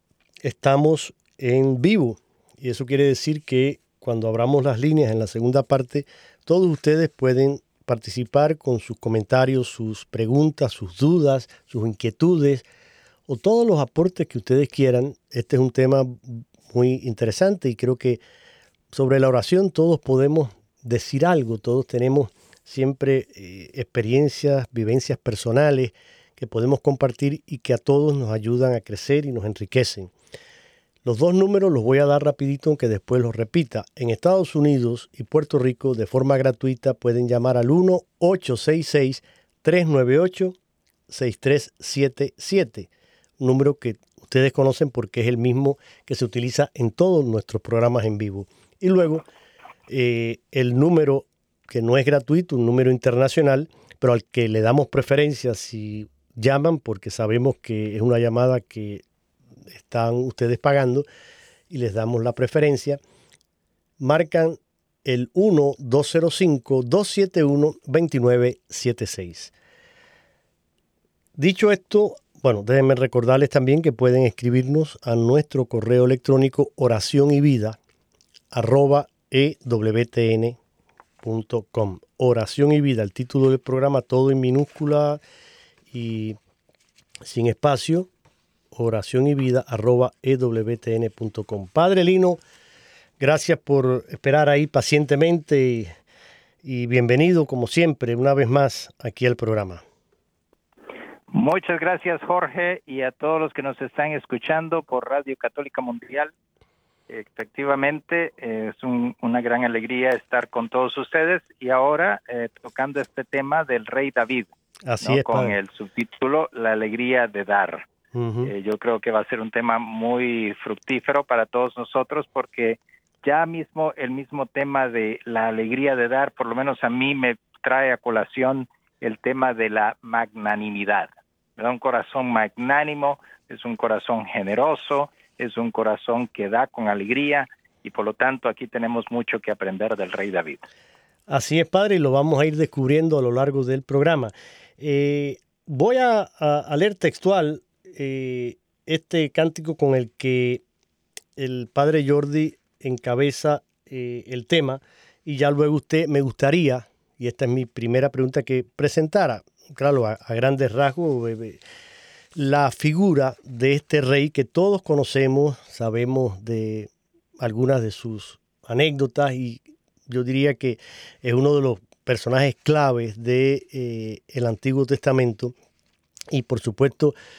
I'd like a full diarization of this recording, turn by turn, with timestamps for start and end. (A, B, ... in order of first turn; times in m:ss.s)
0:00.4-0:12.7 A
0:13.3-0:18.2 A
0:18.9-0:30.1 A
0:31.0-0:40.6 A
0:41.1-0:49.3 A
0:49.9-0:59.0 A
0:59.7-1:01.1 A
1:01.7-1:03.0 A
1:04.0-1:09.5 A
1:11.4-1:17.8 A
1:18.5-1:20.6 A
1:21.2-1:25.2 A
1:25.9-1:26.4 A
1:27.2-1:28.1 A
1:28.7-1:32.4 A
1:33.2-1:36.0 A
1:36.6-1:39.8 A
1:41.3-1:46.3 B
1:47.1-1:54.5 B
1:54.9-1:55.6 A
1:55.0-1:57.9 B
1:58.1-1:58.5 A
1:58.4-2:20.7 B
2:21.3-2:30.6 A
2:31.4-2:41.6 A
2:42.4-2:55.5 A
2:56.3-2:57.2 A